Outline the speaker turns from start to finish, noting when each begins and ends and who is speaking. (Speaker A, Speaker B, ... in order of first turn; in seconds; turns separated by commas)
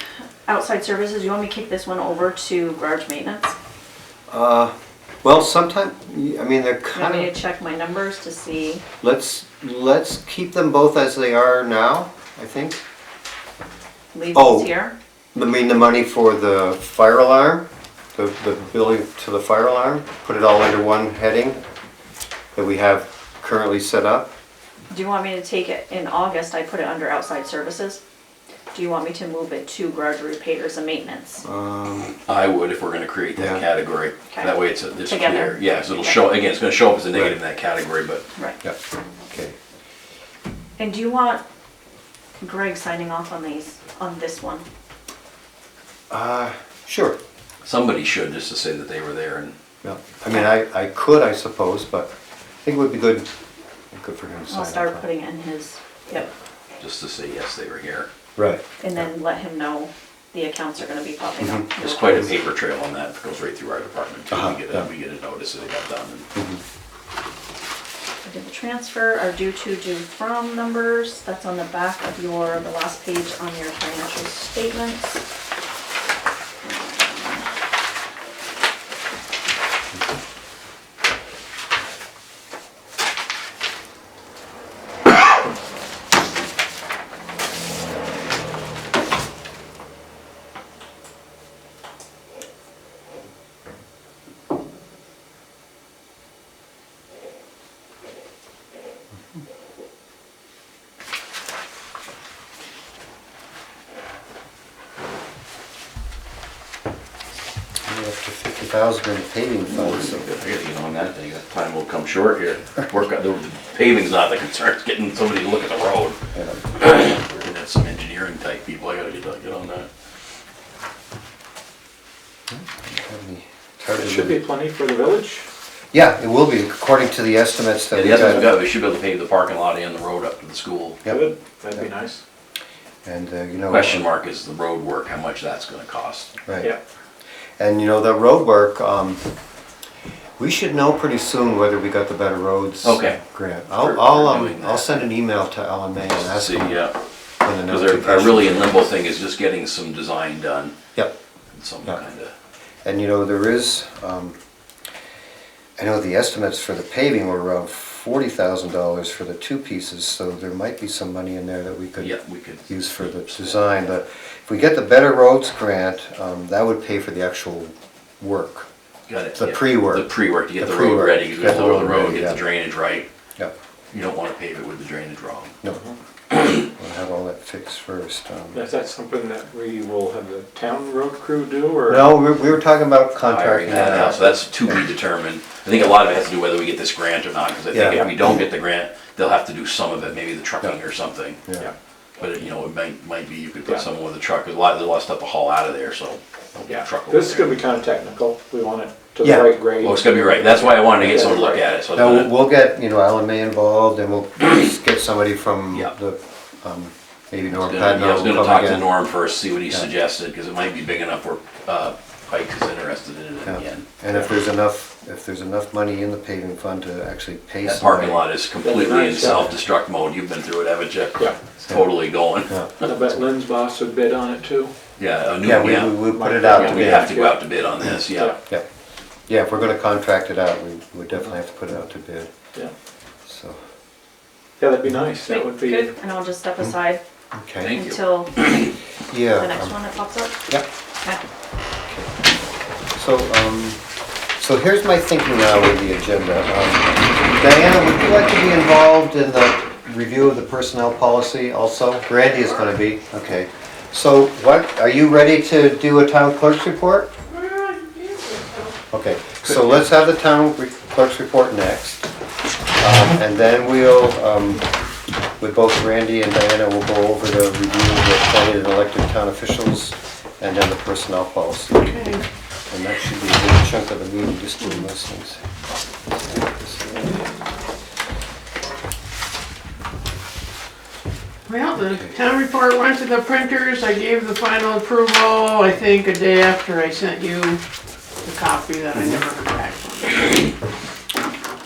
Speaker A: 0.5-3.5, Speaker B: 4.3-4.7, Speaker B: 5.2-7.3, Speaker A: 6.9-8.8, Speaker B: 9.0-12.8, Speaker A: 14.1-14.9, Speaker B: 14.3-14.7, Speaker B: 15.3-21.6, Speaker B: 22.6-24.3, Speaker A: 24.9-28.0, Speaker A: 28.7-31.4, Speaker B: 31.4-32.1, Speaker C: 32.3-38.2, Speaker B: 33.4-33.6, Speaker A: 34.3-36.2, Speaker B: 39.3-39.5, Speaker A: 40.8-41.4, Speaker A: 42.4-44.6, Speaker B: 46.1-47.2, Speaker C: 47.6-49.5, Speaker B: 49.8-52.1, Speaker B: 52.6-53.3, Speaker B: 53.9-55.1, Speaker A: 54.5-56.3, Speaker C: 56.8-58.1, Speaker B: 58.4-58.6, Speaker A: 58.8-62.4, Speaker B: 61.4-62.3, Speaker C: 61.8-66.3, Speaker B: 64.3-64.9, Speaker B: 66.3-66.6, Speaker A: 68.2-75.2, Speaker A: 76.6-77.4, Speaker B: 107.9-110.3, Speaker C: 109.7-116.2, Speaker B: 116.3-116.7, Speaker C: 116.7-119.9, Speaker B: 122.5-124.4, Speaker D: 124.0-125.5, Speaker B: 125.9-128.5, Speaker C: 127.9-131.0, Speaker D: 131.1-132.2, Speaker B: 133.0-134.1, Speaker C: 133.7-136.3, Speaker B: 136.5-136.7, Speaker B: 137.6-139.2, Speaker B: 140.4-146.8, Speaker C: 142.8-143.2, Speaker C: 143.8-145.1, Speaker C: 146.1-147.0, Speaker B: 147.4-148.9, Speaker C: 147.7-150.8, Speaker C: 151.5-152.3, Speaker B: 152.8-154.4, Speaker B: 155.8-168.7, Speaker C: 162.0-163.6, Speaker C: 169.1-173.1, Speaker B: 169.4-172.4, Speaker C: 173.9-175.5, Speaker B: 176.4-178.6, Speaker D: 178.5-182.1, Speaker B: 181.9-184.4, Speaker C: 183.2-191.4, Speaker B: 187.7-188.1, Speaker C: 192.2-197.6, Speaker D: 196.6-201.6, Speaker B: 199.2-199.5, Speaker C: 199.8-202.3, Speaker B: 201.9-208.9, Speaker C: 207.5-213.9, Speaker B: 213.4-218.2, Speaker C: 217.6-222.6, Speaker D: 218.6-219.6, Speaker D: 222.8-224.7, Speaker C: 225.0-228.4, Speaker B: 225.4-227.2, Speaker D: 226.1-227.4, Speaker D: 228.1-228.4, Speaker B: 229.3-232.3, Speaker B: 233.3-233.6, Speaker D: 234.6-235.9, Speaker A: 235.2-237.0, Speaker B: 237.3-237.7, Speaker C: 237.6-238.6, Speaker A: 237.7-238.5, Speaker B: 239.1-239.7, Speaker A: 239.4-240.4, Speaker B: 243.0-243.8, Speaker B: 244.4-257.1, Speaker E: 257.3-258.8, Speaker B: 258.9-262.1, Speaker B: 262.8-264.7, Speaker B: 265.4-271.9, Speaker E: 271.8-272.2, Speaker B: 272.7-275.4, Speaker B: 276.1-277.3, Speaker E: 281.5-287.6, Speaker E: 288.2-290.5, Speaker B: 288.9-289.2